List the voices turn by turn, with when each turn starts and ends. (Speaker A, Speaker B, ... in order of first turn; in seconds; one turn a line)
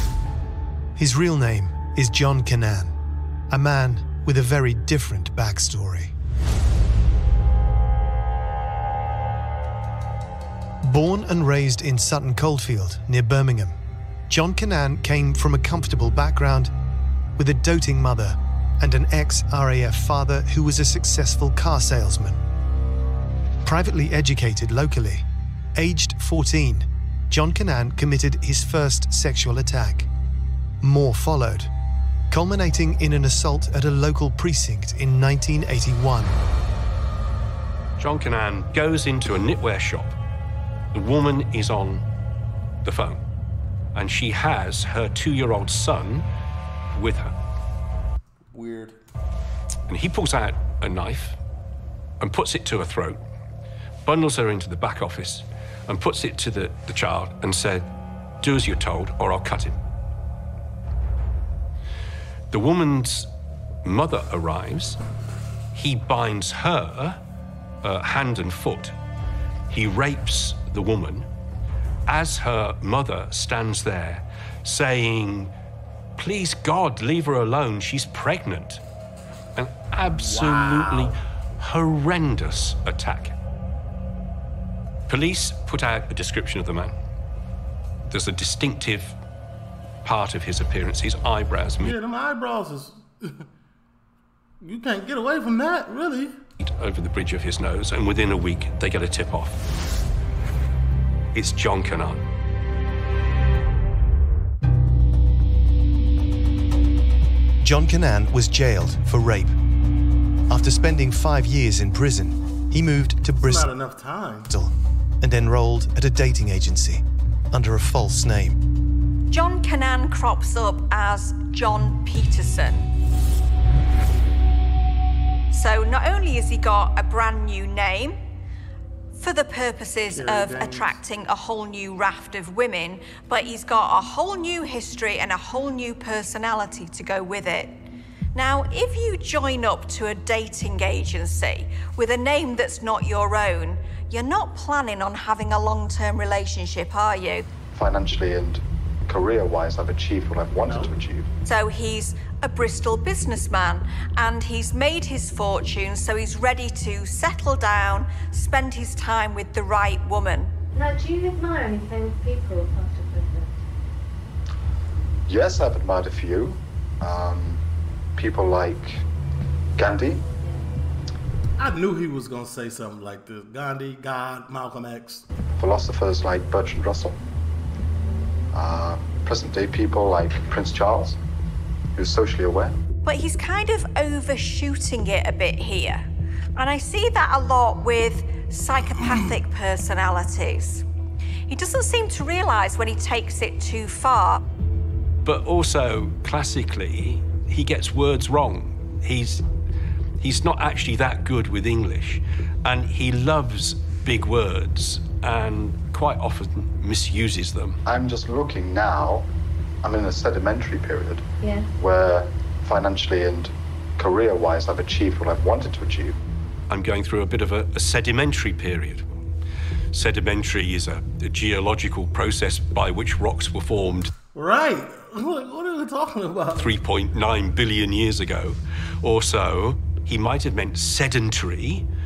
Speaker A: 0.9-3.0
Speaker A: 3.5-6.1
Speaker A: 10.8-13.8
Speaker A: 14.3-16.7
Speaker A: 17.4-22.4
Speaker A: 23.6-30.1
Speaker A: 30.8-31.7
Speaker A: 32.3-36.4
Speaker B: 38.0-40.2
Speaker B: 40.9-42.0
Speaker B: 42.8-43.2
Speaker B: 43.9-46.3
Speaker B: 46.9-47.3
Speaker C: 48.5-49.0
Speaker B: 49.9-51.4
Speaker B: 52.2-53.2
Speaker B: 54.0-57.9
Speaker B: 58.4-59.8
Speaker B: 62.5-63.3
Speaker B: 63.8-65.0
Speaker B: 65.7-67.2
Speaker B: 67.8-68.9
Speaker B: 69.7-71.3
Speaker B: 72.1-75.5
Speaker B: 76.2-78.8
Speaker B: 79.5-83.3
Speaker C: 80.2-81.1
Speaker B: 85.1-86.9
Speaker B: 88.0-89.2
Speaker B: 90.0-91.9
Speaker C: 91.8-93.5
Speaker C: 94.6-96.4
Speaker B: 96.6-99.7
Speaker B: 101.3-102.2
Speaker A: 107.6-109.6
Speaker A: 110.5-113.7
Speaker C: 113.4-114.5
Speaker A: 114.5-118.6
Speaker D: 119.3-122.9
Speaker D: 125.5-128.2
Speaker D: 129.2-137.7
Speaker C: 130.1-131.0
Speaker D: 138.3-147.5
Speaker E: 147.7-151.3
Speaker C: 150.7-150.9
Speaker D: 151.4-160.5
Speaker F: 160.7-163.5
Speaker E: 165.3-167.6
Speaker E: 168.2-169.0
Speaker E: 169.8-170.2
Speaker C: 171.6-175.2
Speaker E: 175.6-177.2
Speaker E: 178.5-181.2
Speaker E: 181.9-182.8
Speaker D: 183.0-190.8
Speaker D: 191.5-194.4
Speaker B: 195.2-199.4
Speaker B: 200.2-207.8
Speaker E: 207.8-209.3
Speaker E: 209.8-211.2
Speaker F: 211.4-211.7
Speaker E: 211.8-216.2
Speaker B: 216.7-219.1
Speaker B: 219.9-224.1
Speaker C: 224.3-226.7
Speaker B: 226.6-231.9